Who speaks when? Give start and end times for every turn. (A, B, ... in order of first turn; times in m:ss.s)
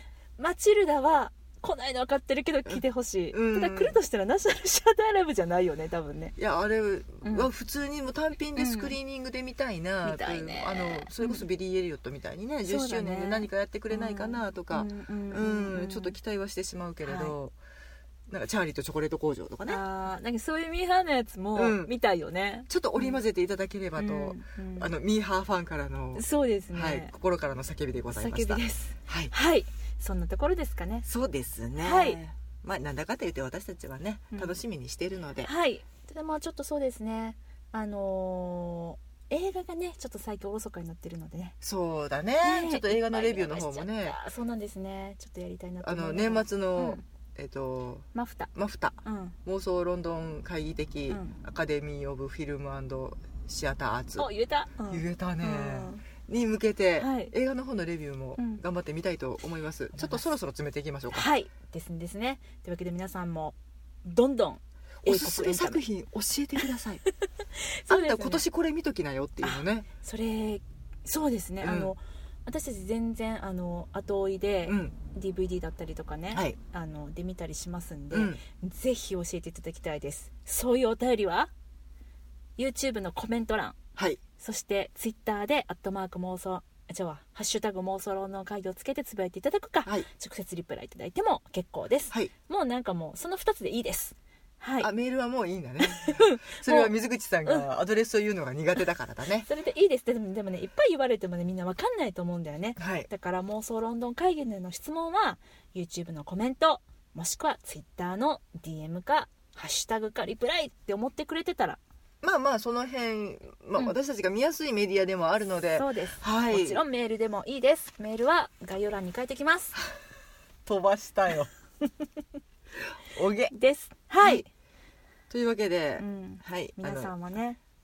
0:00.4-0:06.4 A
0:02.7-0:04.0 B
0:06.4-0:17.6 B
0:07.2-0:07.5 A
0:08.6-0:09.0 A
0:10.0-0:11.4 A
0:12.7-0:16.2 A
0:17.0-0:17.4 A
0:18.3-0:19.8 B
0:19.7-0:23.2 A
0:21.6-0:21.9 B
0:22.7-0:29.3 B
0:24.0-0:24.9 A
0:26.2-0:27.1 A
0:28.1-0:31.1 A
0:31.0-0:35.5 B
0:31.8-0:32.2 A
0:34.3-0:34.6 A
0:35.4-0:41.6 A
0:41.6-0:44.2 B
0:42.4-0:47.0 A
0:45.8-0:54.3 B
0:48.1-0:48.5 A
0:49.0-0:49.4 A
0:51.1-0:51.4 A
0:54.2-0:56.0 A
0:54.9-1:01.3 B
0:57.0-0:57.3 A
0:58.4-0:58.6 A
1:00.0-1:00.2 A
1:01.1-1:05.8 A
1:05.0-1:07.0 B
1:07.5-1:08.4 A
1:07.9-1:09.9 B
1:09.4-1:21.5 A
1:11.6-1:11.9 B
1:14.7-1:15.0 B
1:18.1-1:18.4 B
1:22.6-1:23.8 A
1:24.0-1:24.2 B
1:24.4-1:34.9 A
1:34.8-1:39.5 B
1:35.8-1:36.9 A
1:39.5-1:51.8 A
1:42.8-1:43.1 B
1:52.2-1:56.8 B
1:55.8-1:59.8 A
2:00.7-2:01.5 B
2:03.0-2:03.5 B
2:03.5-2:04.5 A
2:05.3-2:07.1 B
2:06.0-2:07.6 A